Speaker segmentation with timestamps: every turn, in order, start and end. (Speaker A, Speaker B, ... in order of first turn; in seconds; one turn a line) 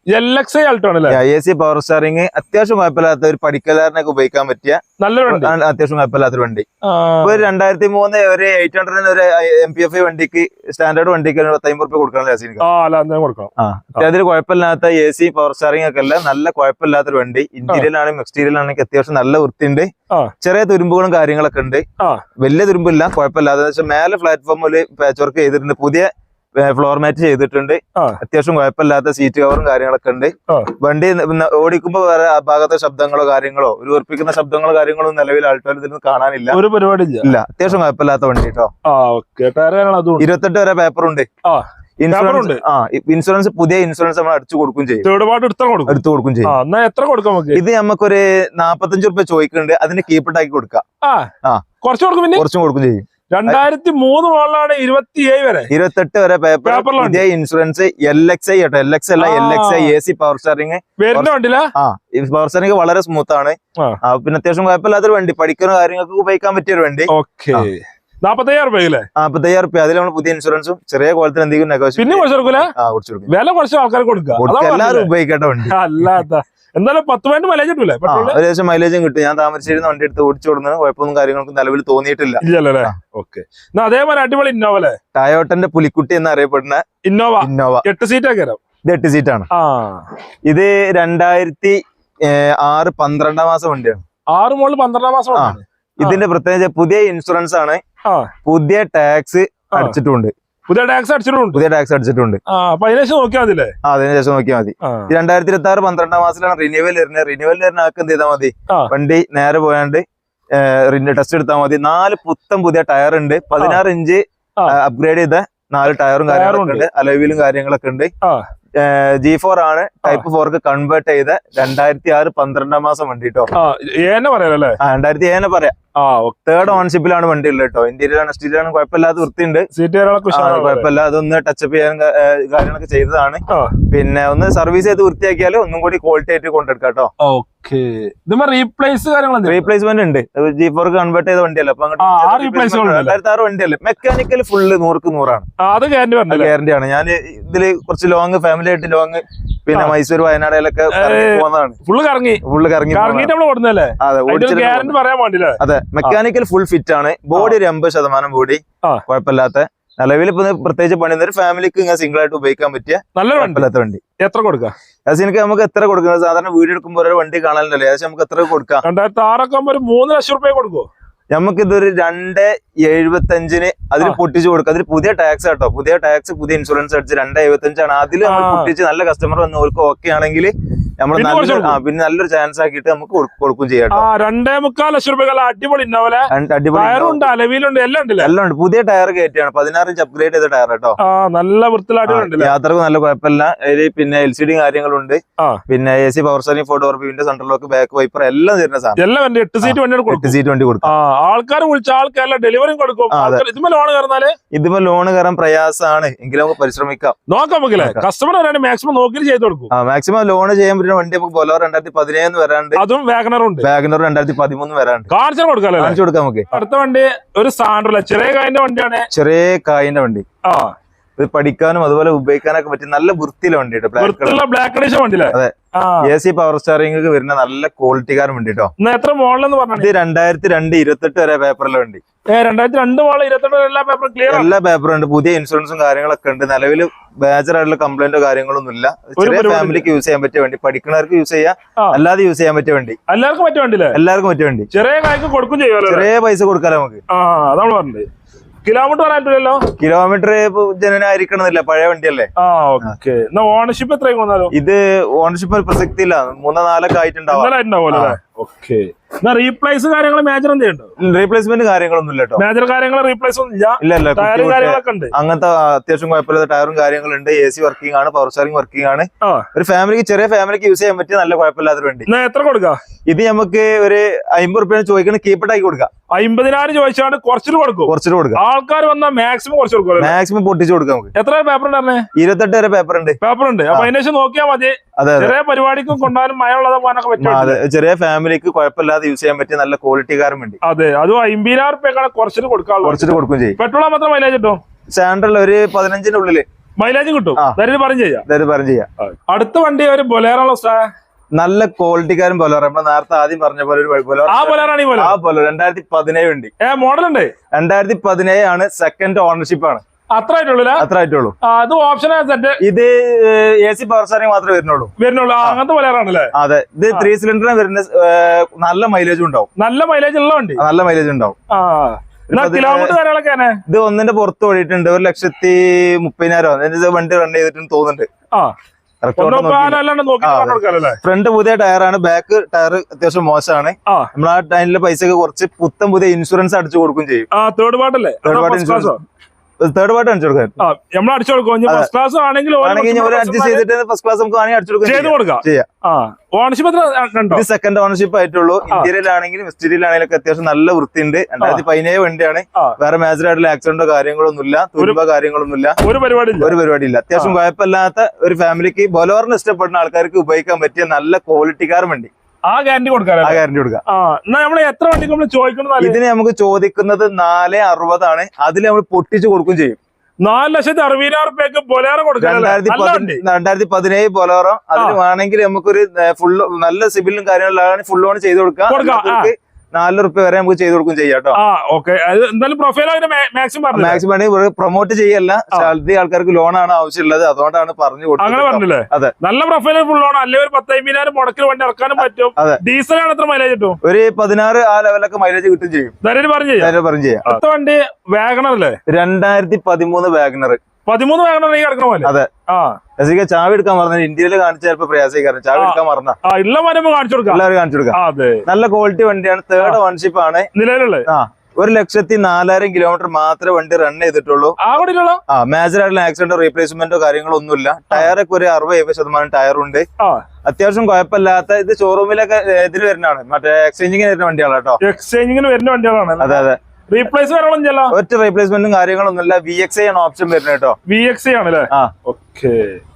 Speaker A: 0.1-1.2
Speaker B: 1.1-6.6
Speaker A: 5.0-5.5
Speaker A: 6.8-7.4
Speaker B: 7.2-12.6
Speaker A: 12.6-14.1
Speaker B: 13.6-19.9
Speaker B: 20.4-21.8
Speaker B: 22.4-36.6
Speaker A: 36.5-37.3
Speaker B: 37.2-38.7
Speaker A: 38.9-40.3
Speaker B: 40.2-41.3
Speaker A: 41.5-42.6
Speaker B: 42.0-45.1
Speaker A: 45.0-47.6
Speaker B: 45.9-46.5
Speaker B: 47.5-50.8
Speaker A: 51.0-51.3
Speaker A: 51.8-52.4
Speaker B: 52.3-53.6
Speaker A: 53.3-55.7
Speaker B: 55.7-67.7
Speaker A: 56.6-57.2
Speaker A: 59.2-59.9
Speaker A: 61.0-61.7
Speaker A: 67.1-69.0
Speaker B: 69.2-73.3
Speaker A: 72.0-72.7
Speaker A: 73.3-75.1
Speaker B: 74.4-76.2
Speaker A: 75.7-78.4
Speaker B: 78.1-82.9
Speaker A: 82.4-85.0
Speaker B: 85.1-86.8
Speaker A: 87.0-88.6
Speaker B: 87.4-87.8
Speaker B: 88.9-89.5
Speaker A: 89.5-90.1
Speaker B: 90.5-94.0
Speaker A: 94.3-96.2
Speaker B: 95.3-97.8
Speaker B: 98.5-100.3
Speaker A: 100.7-101.6
Speaker B: 101.5-102.4
Speaker A: 102.5-103.7
Speaker B: 103.8-110.0
Speaker A: 104.8-105.1
Speaker B: 110.6-118.1
Speaker A: 116.3-116.9
Speaker B: 118.8-123.5
Speaker A: 123.5-124.8
Speaker B: 124.8-125.7
Speaker A: 126.0-126.8
Speaker B: 126.5-129.7
Speaker A: 129.8-130.9
Speaker B: 130.3-137.1
Speaker A: 133.5-133.8
Speaker A: 137.2-139.7
Speaker B: 139.4-145.5
Speaker A: 142.0-143.2
Speaker A: 145.6-146.5
Speaker B: 146.3-151.8
Speaker A: 150.9-156.1
Speaker B: 152.4-153.3
Speaker B: 154.0-154.9
Speaker B: 155.6-164.0
Speaker A: 163.2-163.7
Speaker A: 164.2-164.7
Speaker B: 165.1-168.8
Speaker A: 168.8-170.9
Speaker B: 171.3-184.1
Speaker A: 178.2-178.7
Speaker A: 181.1-181.8
Speaker A: 183.9-188.3
Speaker B: 186.3-187.3
Speaker B: 188.2-191.0
Speaker A: 191.0-192.5
Speaker B: 192.1-199.0
Speaker A: 199.0-204.3
Speaker B: 199.6-200.9
Speaker B: 203.1-203.4
Speaker B: 204.5-207.2
Speaker A: 207.3-209.7
Speaker B: 207.8-208.0
Speaker B: 209.7-212.8
Speaker A: 212.8-213.7
Speaker B: 213.6-215.1
Speaker A: 215.1-216.0
Speaker B: 215.8-216.5
Speaker A: 216.5-219.1
Speaker B: 219.1-220.2
Speaker A: 220.5-220.7
Speaker B: 221.2-224.4
Speaker A: 224.0-226.1
Speaker B: 226.0-228.7
Speaker A: 228.8-229.9
Speaker B: 229.8-232.0
Speaker A: 232.3-234.5
Speaker B: 234.3-243.0
Speaker A: 239.2-239.9
Speaker A: 243.1-244.0
Speaker B: 243.9-244.7
Speaker A: 244.7-246.1
Speaker B: 245.9-247.0
Speaker A: 247.1-248.1
Speaker A: 248.6-249.6
Speaker B: 249.8-252.3
Speaker A: 252.4-254.5
Speaker B: 254.5-258.2
Speaker A: 257.3-260.9
Speaker B: 261.0-262.4
Speaker A: 262.4-265.1
Speaker B: 263.8-272.1
Speaker A: 269.2-269.5
Speaker A: 272.1-272.8
Speaker B: 273.1-275.9
Speaker A: 276.1-280.2
Speaker B: 277.9-278.4
Speaker B: 280.0-281.1
Speaker A: 281.1-282.1
Speaker B: 282.1-283.2
Speaker A: 283.2-287.6
Speaker B: 285.0-285.4
Speaker B: 287.2-290.6
Speaker A: 290.6-294.6
Speaker B: 292.8-293.6
Speaker B: 294.9-296.5
Speaker A: 296.8-298.2
Speaker B: 298.3-298.9
Speaker A: 299.0-300.9
Speaker B: 301.4-306.5
Speaker A: 304.3-305.1
Speaker A: 306.6-307.3
Speaker B: 307.5-309.8
Speaker A: 310.1-310.9
Speaker B: 310.8-311.4
Speaker A: 311.4-312.6
Speaker B: 312.6-315.6
Speaker A: 315.0-316.3
Speaker B: 316.4-319.5
Speaker A: 319.6-320.6
Speaker B: 320.6-321.4
Speaker A: 321.5-323.6
Speaker B: 322.3-323.0
Speaker B: 323.7-328.1
Speaker B: 329.0-337.3
Speaker A: 329.2-331.0
Speaker A: 337.3-339.0
Speaker B: 338.2-339.0
Speaker B: 339.6-340.6
Speaker A: 340.6-343.6
Speaker B: 342.6-345.7
Speaker A: 344.9-347.4
Speaker B: 347.3-355.8
Speaker A: 355.8-356.6
Speaker B: 356.4-362.1
Speaker A: 362.5-366.0
Speaker B: 363.2-363.8
Speaker B: 365.8-369.8
Speaker A: 370.2-373.2
Speaker B: 372.2-381.4
Speaker A: 378.7-379.3
Speaker A: 381.4-384.0
Speaker B: 383.7-389.1
Speaker A: 388.2-393.8
Speaker B: 392.0-392.6
Speaker B: 393.8-396.0
Speaker A: 396.0-396.8
Speaker B: 396.6-397.4
Speaker A: 397.2-398.8
Speaker B: 398.9-400.6
Speaker A: 400.9-402.8
Speaker B: 402.0-402.3
Speaker B: 403.0-406.2
Speaker A: 405.6-407.4
Speaker B: 407.3-410.5
Speaker A: 407.9-408.4
Speaker A: 410.5-411.1
Speaker B: 411.1-414.6
Speaker A: 414.6-415.2
Speaker B: 415.3-419.8
Speaker B: 420.4-424.8
Speaker A: 424.8-427.9
Speaker B: 426.2-426.6
Speaker B: 427.9-430.8
Speaker A: 430.9-432.8